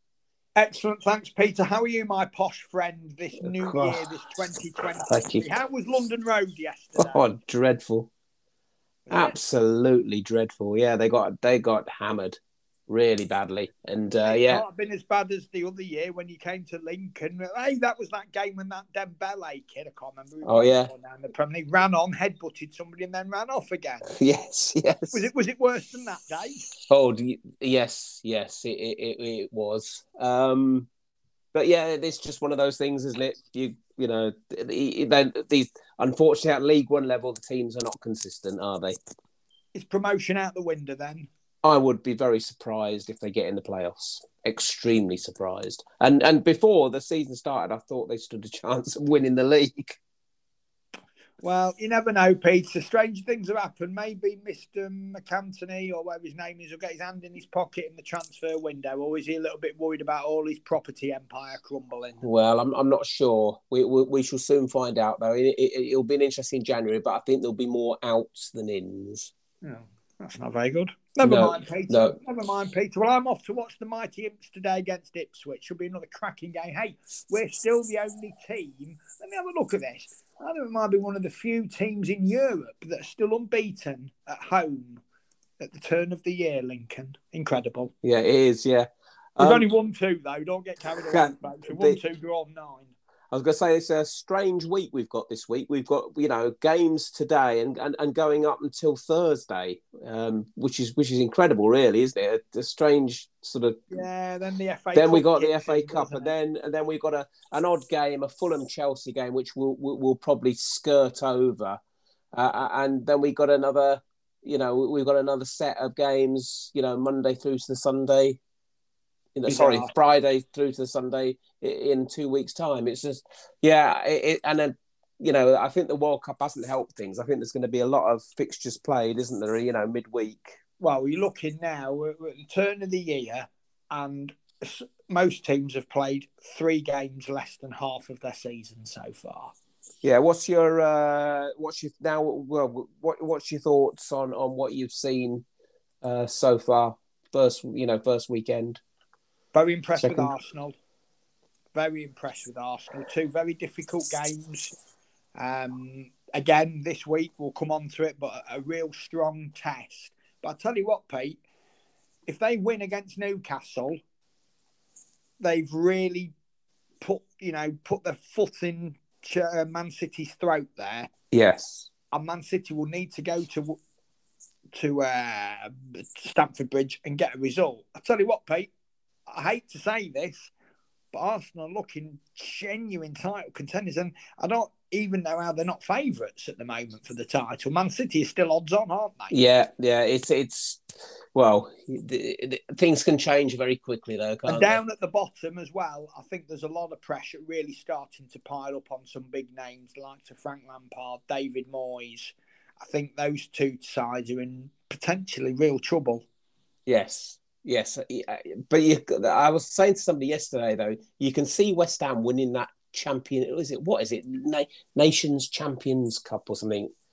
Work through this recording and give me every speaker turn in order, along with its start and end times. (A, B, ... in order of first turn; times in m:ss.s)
0:00.6-0:07.2 A
0:03.4-0:04.1 B
0:05.0-0:05.5 B
0:07.0-0:08.1 B
0:09.1-0:09.4 A
0:09.1-0:14.6 B
0:14.2-0:24.1 A
0:20.4-0:20.9 B
0:24.1-0:25.2 B
0:25.1-0:26.7 A
0:26.9-0:30.9 B
0:31.5-0:39.0 B
0:39.7-0:41.3 A
0:41.6-0:50.0 B
0:51.4-1:02.2 A
1:02.2-1:09.3 B
1:09.6-1:25.0 A
1:11.2-1:12.2 B
1:25.6-1:27.9 A
1:28.0-1:29.7 B
1:29.4-1:32.9 A
1:30.9-1:32.0 B
1:33.3-1:43.8 B
1:43.9-1:46.3 A
1:44.9-1:51.8 B
1:52.3-1:58.4 B
1:59.3-2:10.6 B
1:59.5-1:59.9 A
2:10.8-2:19.5 A
2:20.0-2:25.4 B
2:26.0-2:28.8 B
2:29.5-2:30.8 A
2:30.0-2:30.3 B
2:31.7-2:34.7 A
2:35.4-2:41.4 A
2:42.3-2:44.0 A
2:45.4-2:46.3 A
2:47.0-2:51.1 A
2:51.3-2:51.9 B
2:52.1-2:53.8 A
2:54.7-2:58.7 A
2:59.3-3:00.5 A
3:01.1-3:09.3 A
3:09.3-3:10.8 B
3:11.3-3:14.8 B
3:14.5-3:26.2 A
3:26.9-3:36.9 B